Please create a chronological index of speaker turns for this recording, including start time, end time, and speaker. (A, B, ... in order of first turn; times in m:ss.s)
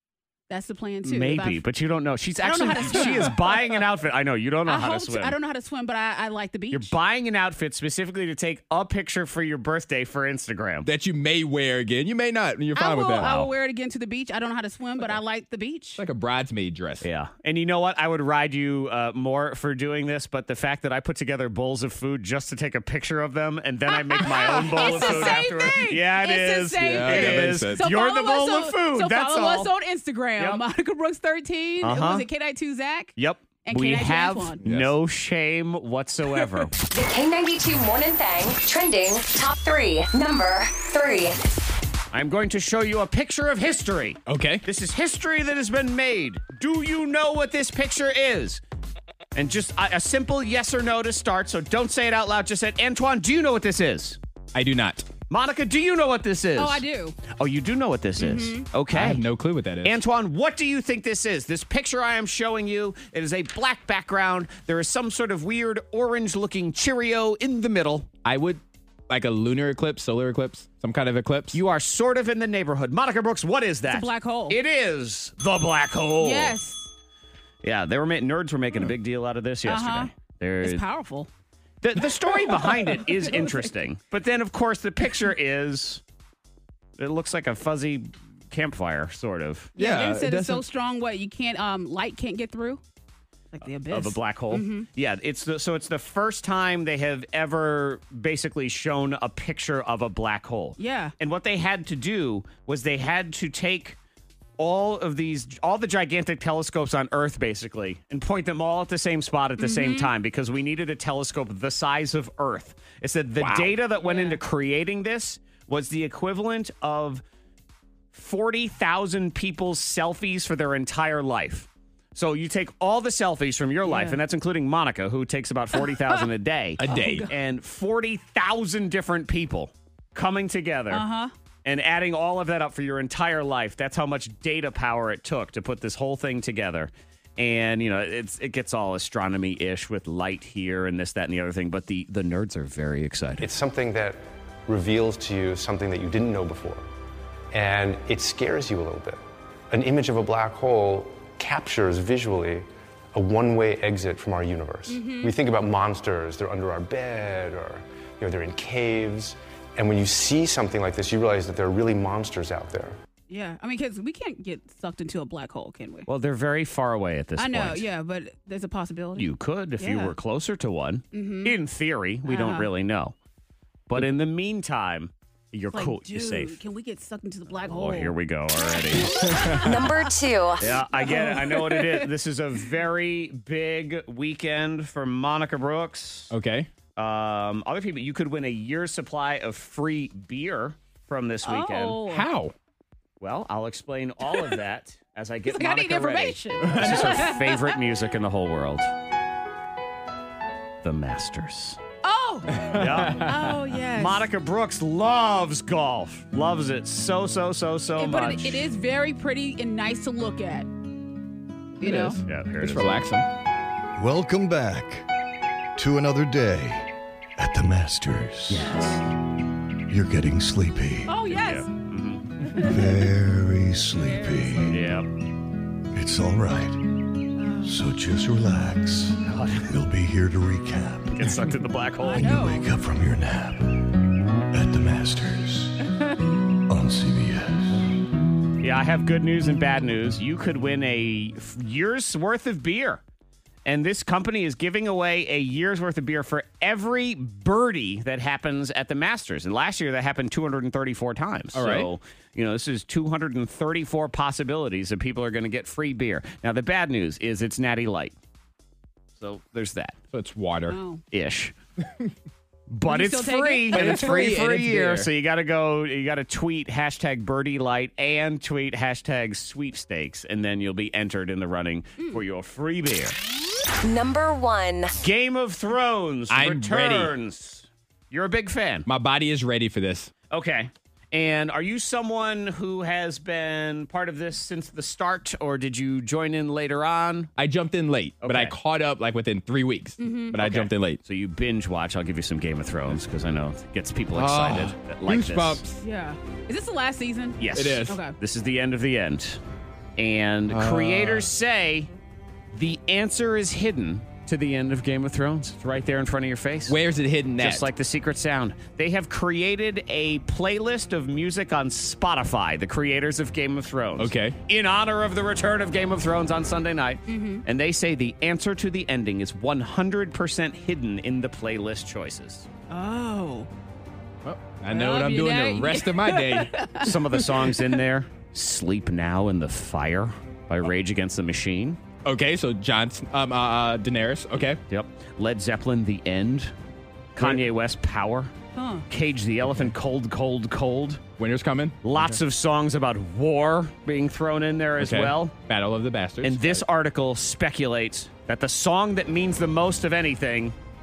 0:00.5-0:01.6 A
0:01.0-0:05.4 B
0:02.4-0:03.6 A
0:04.6-0:06.9 A
0:06.7-0:10.9 B
0:10.8-0:13.3 C
0:12.7-0:16.0 A
0:13.1-0:13.5 B
0:16.0-0:17.0 C
0:17.0-0:29.7 B
0:23.9-0:33.1 A
0:24.3-0:25.4 C
0:26.8-0:27.8 C
0:30.4-0:30.6 B
0:31.8-0:32.2 B
0:33.2-0:36.7 B
0:33.6-0:34.6 A
0:34.6-0:34.9 C
0:36.8-0:41.4 D
0:42.1-0:48.6 B
0:44.3-0:44.6 C
0:49.3-0:54.2 B
0:54.5-0:55.0 C
0:55.3-0:59.2 B
0:56.6-0:57.2 A
0:58.2-0:58.7 A
0:58.9-1:00.0 C
0:59.8-1:08.1 B
1:08.2-1:11.6 C
1:11.5-1:16.6 B
1:13.9-1:14.6 A
1:16.2-1:16.9 A
1:17.6-1:20.8 B
1:19.6-1:20.1 A
1:20.6-1:21.3 A
1:21.8-1:26.0 B
1:22.5-1:23.7 A
1:27.0-1:29.7 B
1:29.8-1:32.8 A
1:29.8-1:30.6 C
1:33.5-1:34.9 A
1:33.6-1:44.0 B
1:40.8-1:41.1 A
1:44.6-1:57.2 B
1:49.6-1:50.1 A
1:53.4-1:53.7 C
1:53.9-1:54.4 A
1:58.1-2:11.0 B
2:03.8-2:04.2 A
2:05.8-2:06.2 A
2:06.8-2:07.3 C
2:06.9-2:07.3 A
2:10.9-2:11.3 A
2:11.6-2:23.5 B
2:23.4-2:26.9 E
2:27.5-2:43.0 E
2:34.9-2:35.3 A
2:43.3-2:46.1 A
2:46.1-2:47.9 B
2:47.4-2:49.3 A
2:49.2-2:53.2 B
2:49.8-2:50.1 A
2:51.1-2:51.6 A
2:52.3-2:52.7 A
2:53.9-2:56.6 B
2:55.7-2:58.1 A
2:57.6-2:59.3 B
2:59.2-3:00.0 A
2:59.3-2:59.6 C
2:59.7-3:00.8 D
3:00.6-3:06.3 B
3:00.9-3:02.1 A
3:06.3-3:06.7 C
3:07.0-3:12.0 B
3:11.4-3:12.3 A
3:12.0-3:12.5 C
3:13.2-3:18.9 B
3:15.5-3:17.8 A
3:16.6-3:17.1 C
3:20.8-3:21.8 B
3:22.0-3:24.3 A
3:22.5-3:23.5 C
3:22.7-3:23.3 B
3:23.9-3:28.7 B
3:28.0-3:30.7 A
3:31.8-3:32.2 A
3:31.8-3:33.3 C
3:32.2-3:32.9 B
3:34.0-3:35.1 F
3:35.8-3:38.7 F
3:38.5-3:39.0 B
3:39.9-3:41.1 F
3:41.1-3:41.7 A
3:41.3-3:42.3 B
3:42.5-3:43.1 A
3:42.6-3:44.8 F
3:43.9-3:44.6 A
3:44.6-3:45.1 B
3:45.9-3:46.8 F
3:47.4-3:47.9 A
3:47.6-3:51.3 F
3:49.2-3:49.7 B
3:51.1-3:52.4 B
3:52.0-3:52.7 A
3:52.1-3:53.9 F
3:54.5-3:55.8 F
3:56.7-3:57.9 F
3:58.6-4:03.0 B
4:03.6-4:18.1 B
4:11.5-4:11.9 C
4:19.2-4:20.0 B
4:20.1-4:20.8 C
4:20.7-4:21.0 A
4:21.1-4:21.5 B
4:21.8-4:22.1 C
4:22.7-4:33.2 B
4:22.8-4:24.2 A
4:23.7-4:25.1 C
4:32.0-4:32.2 A
4:33.8-4:34.9 D
4:35.0-4:38.9 B
4:36.3-4:37.1 C
4:38.9-4:40.1 C
4:40.3-4:47.3 B
4:47.4-4:51.0 C
4:48.2-4:48.6 B
4:50.0-4:50.4 A
4:50.4-4:55.6 B
4:54.1-4:55.8 C
4:55.8-4:58.1 A
4:57.4-4:59.4 B
4:57.5-4:58.0 C
5:00.0-5:01.9 B
5:00.5-5:01.3 C
5:02.5-5:06.8 B
5:06.7-5:07.7 C
5:07.4-5:22.5 B
5:14.0-5:14.4 C
5:17.1-5:17.4 A
5:22.7-5:23.5 A
5:24.2-5:26.5 C
5:24.7-5:27.6 A
5:26.8-5:31.8 B
5:32.0-5:34.6 C
5:34.7-5:36.5 B
5:37.2-5:38.3 B
5:37.2-5:37.4 C
5:38.5-5:38.9 A
5:38.9-5:41.0 B
5:41.2-5:42.2 C
5:41.8-5:45.3 B
5:44.8-5:46.6 C
5:46.2-5:50.6 B